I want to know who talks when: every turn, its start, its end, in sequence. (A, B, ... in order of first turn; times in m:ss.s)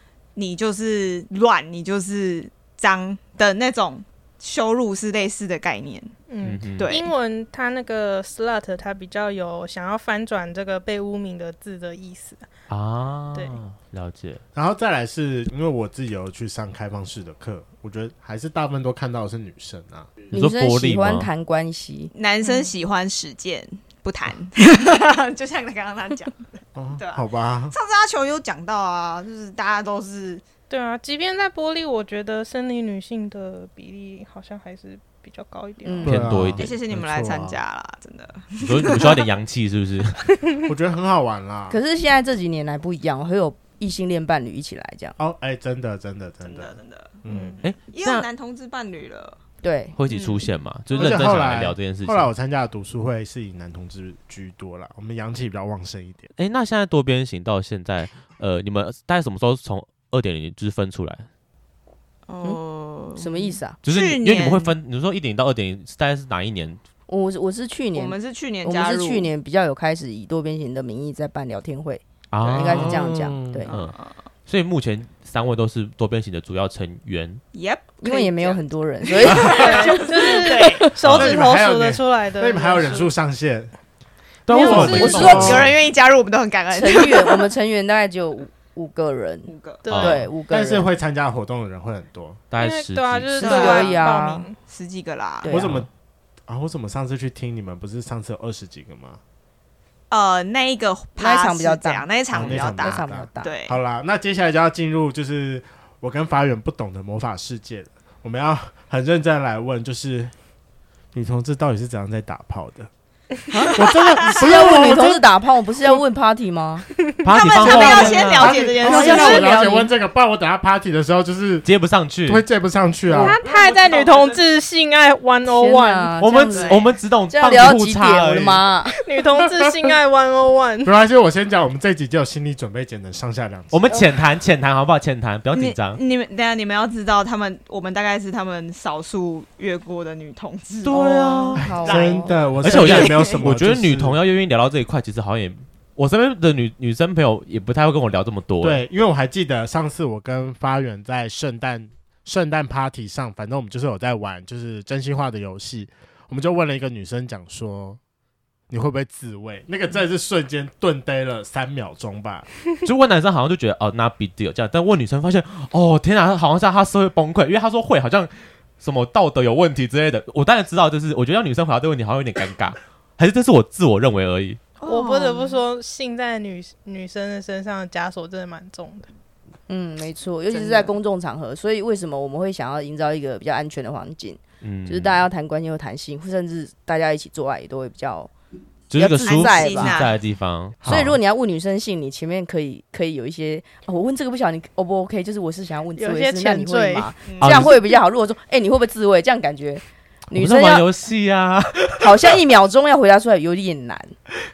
0:00.4-0:06.1 A
0:06.3-0:12.4 B
0:06.4-0:06.9 C
0:06.8-0:07.1 A
0:12.7-0:14.4 C
0:13.3-0:13.6 B
0:14.5-0:20.1 D
0:20.3-0:21.3 C
0:20.3-0:22.1 E
0:22.1-0:26.4 A
0:22.4-0:22.7 B
0:26.8-0:27.7 D
0:27.0-0:30.4 A
0:30.7-0:36.2 B
0:35.8-0:36.2 E
0:36.0-0:37.6 D
0:36.0-0:36.8 C
0:36.6-0:39.2 A
0:38.6-0:40.3 C
0:40.6-0:41.8 D
0:41.7-0:45.2 E
0:45.2-0:47.6 D
0:46.4-0:49.4 A
0:47.6-0:48.2 C
0:49.6-0:49.9 E
0:50.0-0:52.3 C
0:50.1-0:50.5 A
0:50.9-0:56.3 D
0:56.4-1:01.3 C
1:02.3-1:04.7 A
1:03.1-1:03.8 E
1:03.8-1:06.8 C
1:07.1-1:13.7 E
1:07.9-1:09.3 A
1:12.3-1:13.0 C
1:12.4-1:12.8 A
1:12.7-1:13.6 D
1:13.7-1:14.2 A
1:13.7-1:13.9 C
1:14.5-1:17.4 C
1:17.5-1:20.9 A
1:18.0-1:20.0 E
1:19.5-1:23.1 B
1:21.0-1:21.4 C
1:21.0-1:23.7 D
1:24.5-1:25.7 C
1:24.5-1:25.7 D
1:24.5-1:25.4 B
1:24.5-1:25.6 E
1:25.2-1:27.4 A
1:26.7-1:30.9 E
1:29.4-1:29.8 A
1:29.8-1:30.2 B
1:29.9-1:30.2 C
1:30.5-1:32.4 D
1:32.5-1:33.5 C
1:32.6-1:34.6 B
1:33.4-1:34.0 A
1:33.4-1:34.5 E
1:34.7-1:35.5 A
1:35.4-1:35.8 E
1:35.5-1:35.9 D
1:36.5-1:39.2 D
1:40.1-1:43.8 A
1:41.2-1:43.5 E
1:42.3-1:50.3 D
1:51.1-1:52.9 D
1:53.5-1:56.9 E
1:53.7-1:55.3 D
1:57.2-1:58.6 C
1:57.3-1:59.7 A
1:57.6-2:01.7 D
1:58.8-1:59.9 E
2:01.6-2:02.4 C
2:02.2-2:03.4 D
2:03.1-2:06.2 B
2:03.4-2:04.4 A
2:05.4-2:09.0 E
2:06.2-2:08.6 C
2:06.5-2:06.8 A
2:08.9-2:11.0 B
2:10.8-2:14.0 D
2:13.7-2:16.0 C
2:15.5-2:23.4 A
2:20.8-2:21.7 C
2:20.9-2:22.3 E
2:21.6-2:24.2 D
2:22.6-2:28.8 C
2:28.6-2:38.0 D
2:38.7-2:42.5 D
2:42.8-2:54.6 C
2:54.8-2:55.6 A
2:54.8-2:59.1 B
2:59.7-3:08.3 E
3:00.5-3:00.9 A
3:04.6-3:05.2 C
3:08.9-3:11.2 C
3:08.9-3:10.0 E
3:09.2-3:10.2 A
3:10.8-3:11.1 D
3:10.8-3:20.9 E
3:16.0-3:17.2 B
3:17.2-3:17.7 A
3:17.4-3:17.7 C
3:20.3-3:22.3 C
3:22.0-3:24.1 E